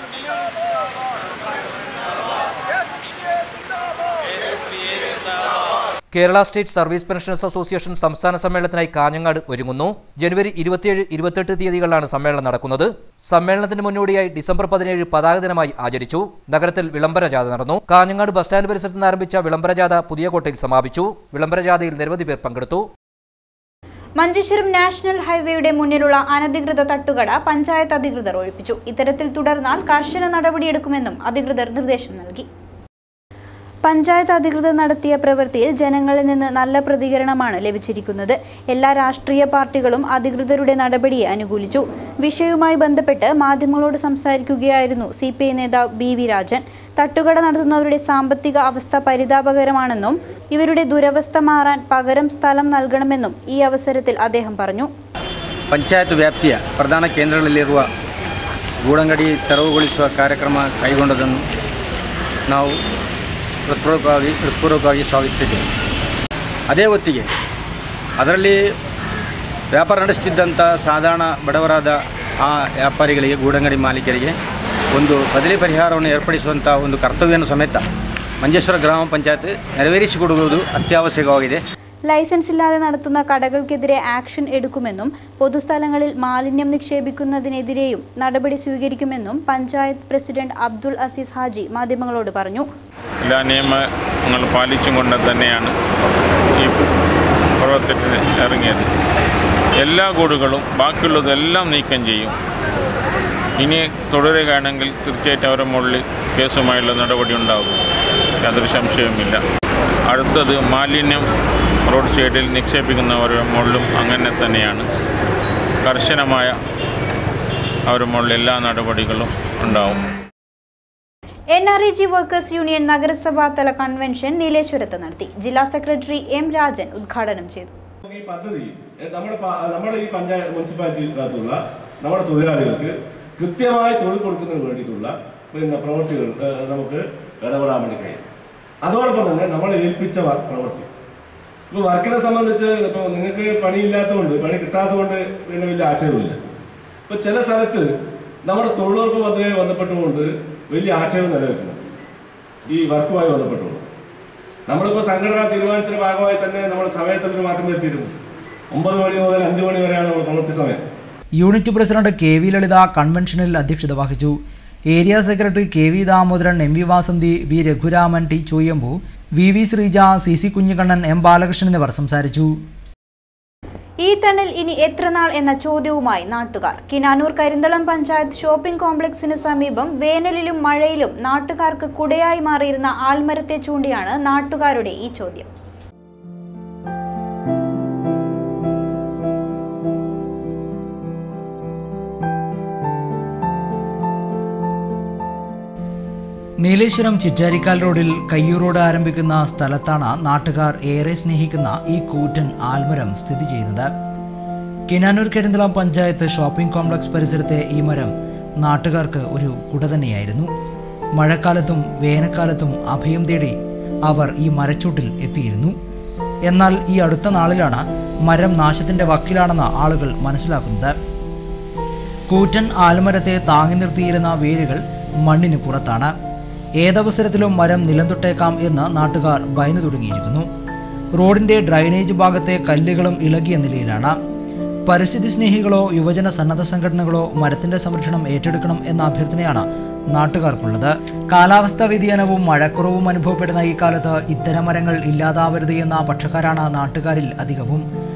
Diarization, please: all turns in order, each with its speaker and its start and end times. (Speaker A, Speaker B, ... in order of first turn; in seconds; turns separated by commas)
Speaker A: 6.1-22.9, Speaker B: 24.2-32.5, Speaker B: 33.8-54.9, Speaker C: 55.7-57.9, Speaker C: 58.8-61.4, Speaker C: 62.5-62.8, Speaker C: 63.7-65.7, Speaker C: 66.7-67.3, Speaker C: 68.2-68.6, Speaker C: 69.7-74.3, Speaker C: 74.9-77.8, Speaker C: 78.4-81.6, Speaker B: 82.1-92.7, Speaker D: 93.2-95.7, Speaker D: 96.6-96.9, Speaker D: 97.6-98.9, Speaker D: 99.8-102.3, Speaker D: 103.6-107.8, Speaker D: 108.4-109.4, Speaker D: 110.1-111.3, Speaker D: 111.9-114.8, Speaker D: 115.8-116.6, Speaker D: 117.9-120.0, Speaker B: 121.5-127.8, Speaker E: 128.1-138.2, Speaker E: 138.8-140.9, Speaker E: 141.7-146.4, Speaker E: 147.1-147.9, Speaker E: 148.5-151.8, Speaker E: 152.7-153.8, Speaker E: 154.7-158.1, Speaker E: 158.7-160.8, Speaker F: 161.4-164.4, Speaker F: 164.9-172.5, Speaker B: 174.0-185.5, Speaker F: 196.6-203.9, Speaker F: 204.9-210.5, Speaker F: 211.2-213.6, Speaker F: 214.1-215.8, Speaker F: 216.5-221.0, Speaker F: 222.3-226.1, Speaker F: 226.8-230.5, Speaker F: 231.2-234.2, Speaker F: 234.9-247.8